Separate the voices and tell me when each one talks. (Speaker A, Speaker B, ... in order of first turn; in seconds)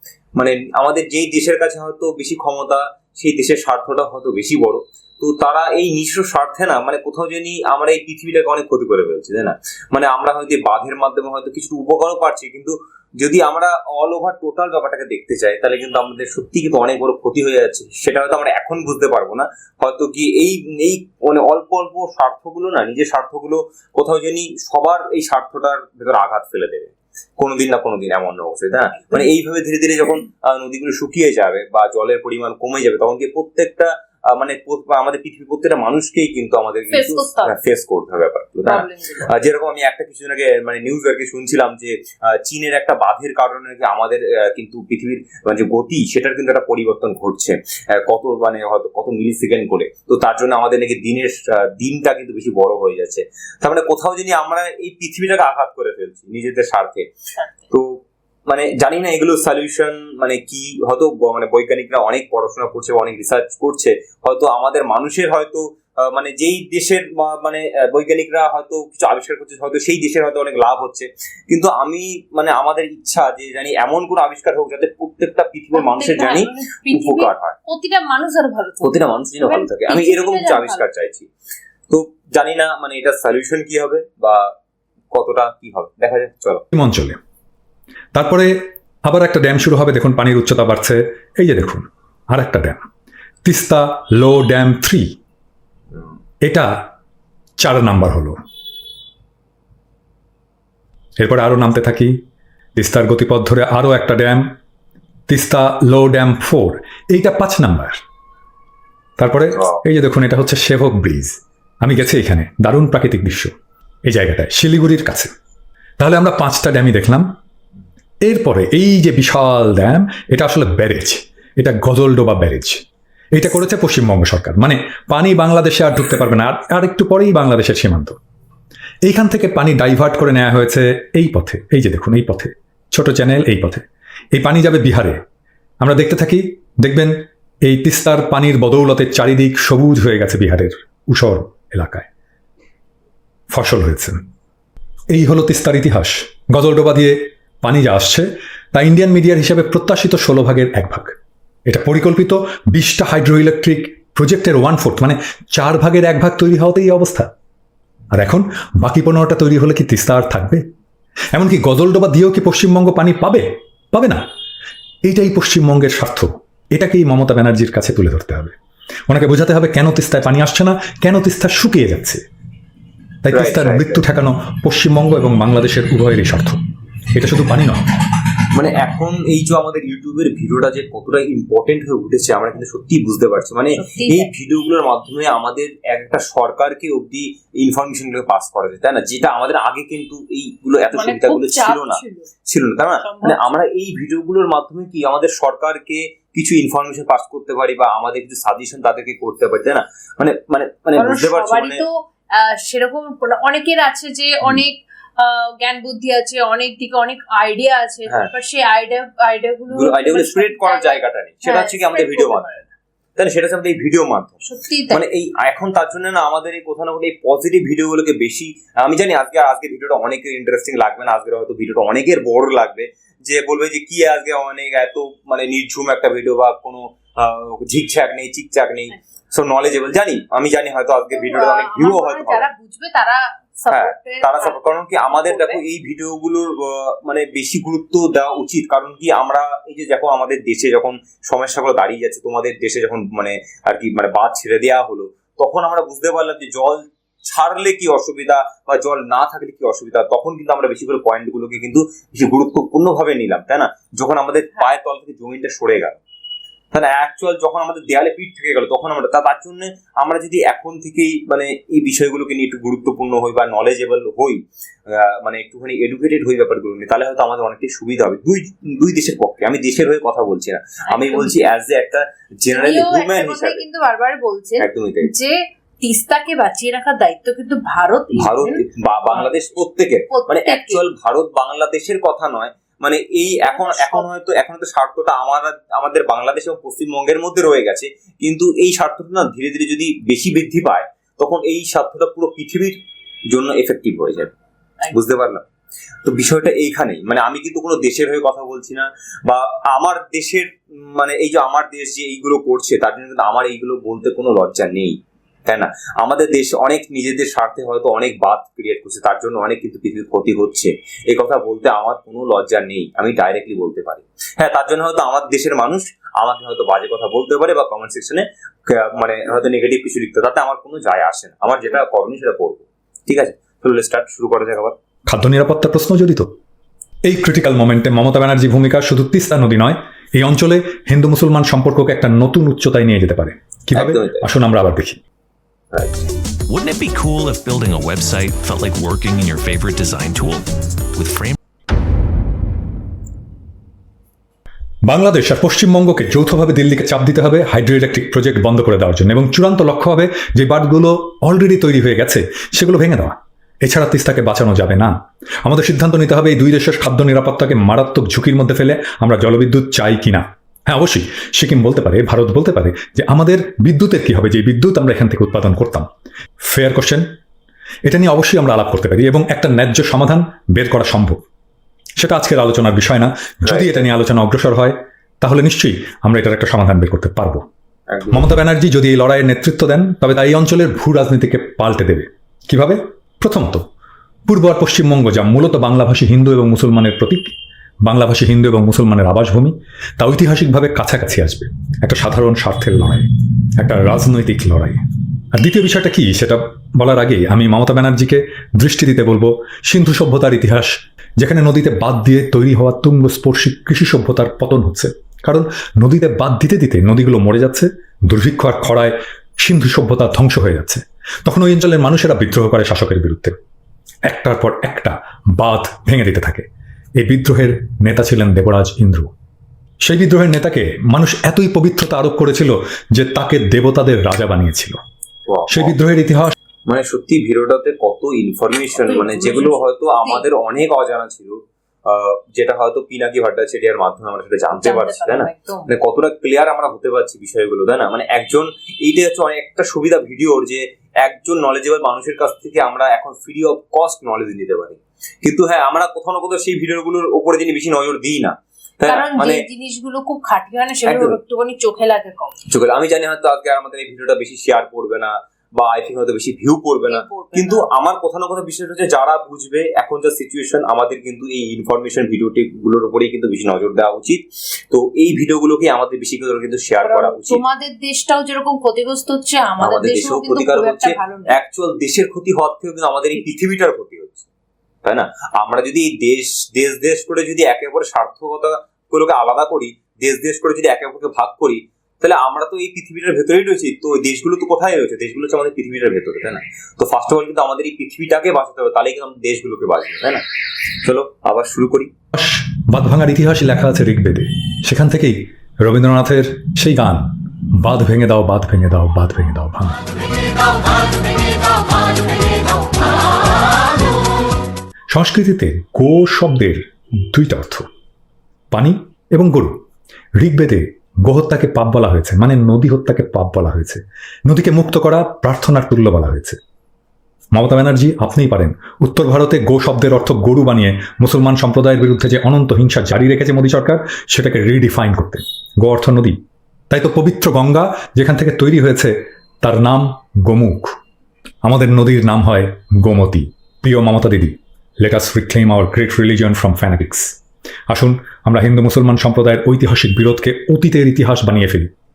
Speaker A: 0.4-57.0, 57.7-77.6, 78.8-81.3, 81.9-84.5, 85.1-86.6, 173.3-174.0, 178.5-201.8, 209.7-212.5, 213.2-214.4, 214.9-232.5, 233.7-256.0, 256.7-273.6, 274.6-275.1, 278.2-292.8, 293.3-294.3, 294.9-295.4, 296.0-324.7, 333.7-334.3, 335.7-336.0, 373.4-373.8, 377.9-378.3, 425.3-425.7, 426.7-449.4, 450.9-451.2, 452.5-467.4, 469.6-474.2, 474.8-490.2, 490.8-491.9
Speaker B: 29.0-29.3, 36.9-37.5, 38.6-39.3, 75.7-80.8, 183.8-184.3, 190.9-192.3, 193.0-193.4, 200.9-212.6, 214.4-215.0, 231.1-235.6, 270.9-271.3, 272.5-279.4, 280.1-280.8, 283.4-284.1, 428.8-430.2, 434.6-435.7, 448.9-452.3, 456.9-457.7, 466.8-471.3
Speaker C: 86.7-87.2, 88.1-92.8, 93.4-95.1, 96.4-96.7, 97.6-98.4, 101.2-102.2, 102.8-104.5, 105.3-108.0, 109.2-113.5, 114.0-115.3, 116.0-117.3, 118.2-122.8, 123.3-128.2, 129.1-135.2, 135.8-142.1, 143.5-144.2, 145.1-151.1, 151.7-157.3, 158.1-160.6, 161.3-164.2, 165.0-168.5, 169.1-172.2, 173.2-176.6, 177.1-177.9, 325.1-326.3, 327.0-335.0, 344.9-365.9, 366.4-367.1, 367.8-371.2, 372.0-377.4, 378.1-383.6, 384.3-387.3, 387.8-394.8, 395.3-413.4, 414.1-416.4, 417.0-419.1, 419.8-424.8, 425.5-426.3, 492.1-500.1, 504.9-507.7, 508.5-509.6, 510.2-516.4, 517.3-530.8, 531.4-537.2, 537.7-541.7
Speaker D: 336.5-341.4